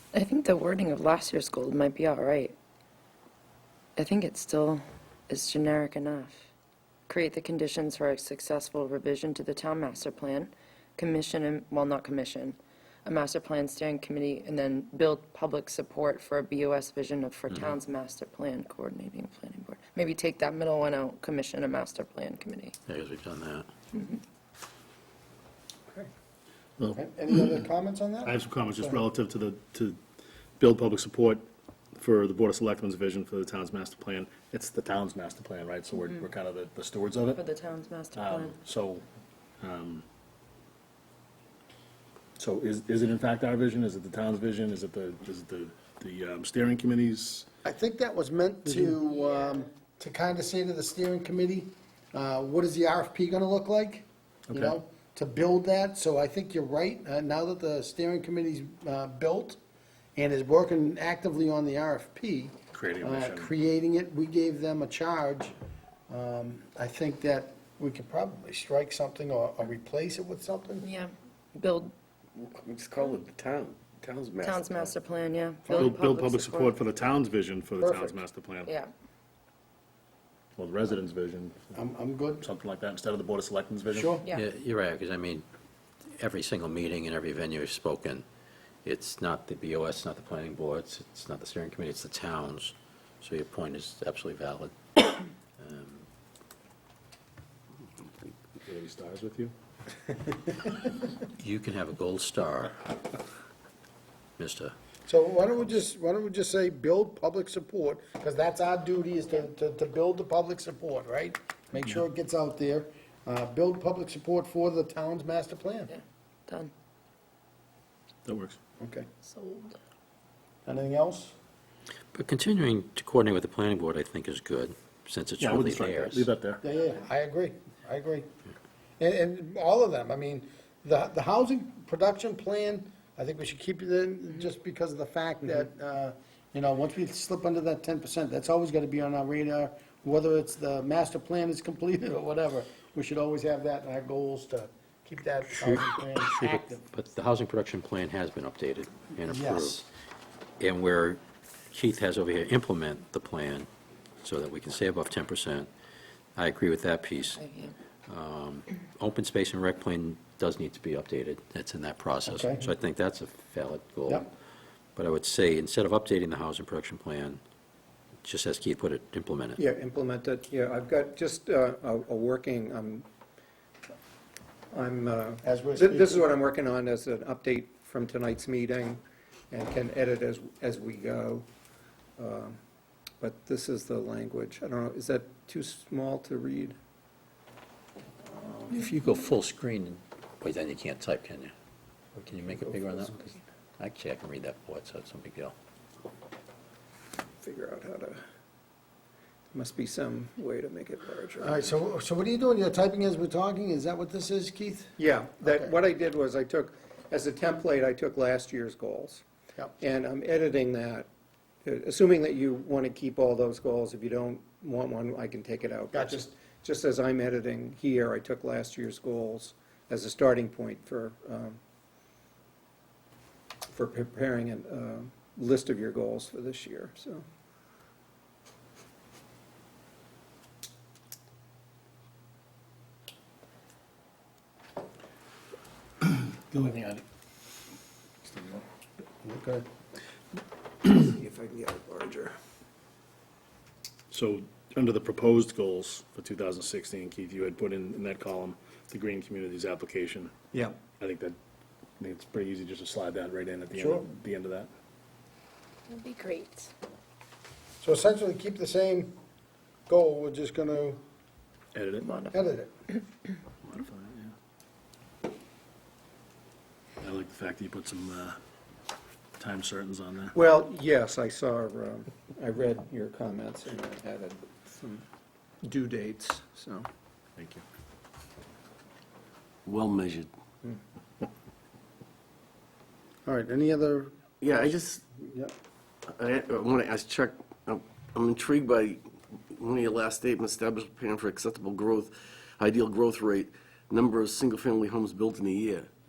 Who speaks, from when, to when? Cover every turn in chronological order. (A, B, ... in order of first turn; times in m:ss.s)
0:00.1-0:02.6 A
0:04.0-0:06.4 A
0:07.1-0:22.8 A
0:22.9-0:23.7 B
0:23.9-0:24.2 A
0:26.8-0:27.4 C
0:27.0-0:29.0 D
0:28.2-0:30.0 C
0:30.6-0:37.4 C
0:37.4-0:38.6 A
0:38.1-0:39.0 C
0:39.6-0:40.0 C
0:42.4-0:47.5 C
0:47.6-0:59.6 D
0:48.7-0:48.9 C
0:54.5-0:54.8 C
1:00.2-1:05.5 D
1:02.7-1:03.5 C
1:06.1-1:10.9 D
1:10.8-1:11.9 A
1:12.4-1:14.9 E
1:14.4-1:16.8 A
1:15.8-1:18.7 C
1:17.8-1:18.2 D
1:18.7-1:18.9 A
1:20.6-1:21.7 C
1:21.8-1:22.5 D
1:22.4-1:24.2 C
1:23.9-1:24.2 D
1:24.3-1:25.5 B
1:26.1-1:28.2 B
1:28.8-1:34.8 B
1:35.6-1:36.1 B
1:38.6-1:39.5 C
1:41.2-1:43.0 B
1:44.4-1:44.8 B
1:45.1-1:55.9 D
1:55.9-1:56.7 A
1:58.2-1:58.6 C
1:58.8-1:59.1 D
1:59.2-1:59.8 A
2:00.6-2:01.3 D
2:02.1-2:06.3 B
2:05.4-2:06.6 C
2:06.6-2:08.3 D
2:09.0-2:26.8 D
2:25.5-2:29.9 B
2:29.2-2:29.8 D
2:30.6-2:31.2 B
2:31.7-2:33.7 B
2:34.2-2:35.7 B
2:36.4-2:37.4 B
2:37.4-2:37.8 A
2:38.1-2:44.3 B
2:42.3-2:42.7 D
2:45.0-2:47.4 B
2:48.2-2:49.6 B
2:49.6-2:53.1 F
2:54.7-3:01.5 F
2:55.4-2:56.3 D
3:02.2-3:02.6 F
3:03.2-3:06.8 F
3:08.3-3:08.7 F
3:08.7-3:11.5 B
3:12.2-3:15.6 B
3:17.4-3:18.2 F
3:19.5-3:21.8 F
3:21.4-3:25.7 D
3:25.0-3:29.2 F
3:29.8-3:31.1 F
3:31.6-3:41.6 F
3:35.9-3:36.3 D
3:43.7-3:47.2 F
3:56.1-3:57.0 C
3:58.2-3:58.6 C
3:59.2-3:59.6 D
4:00.9-4:02.4 F
4:04.1-4:10.3 C
4:11.0-4:11.4 C
4:12.0-4:14.7 C
4:13.8-4:14.0 D
4:15.9-4:16.7 A
4:17.8-4:19.2 D
4:19.9-4:21.0 D
4:21.8-4:22.1 C
4:22.0-4:22.4 A
4:22.3-4:22.7 D
4:23.7-4:24.3 C
4:27.0-4:28.4 C
4:29.4-4:30.4 C
4:30.3-4:35.0 F
4:35.6-4:36.9 F
4:37.4-4:37.6 C
4:39.7-4:40.3 E
4:43.3-4:44.2 D
4:44.4-4:45.0 E
4:45.1-4:45.5 D
4:46.1-4:55.9 E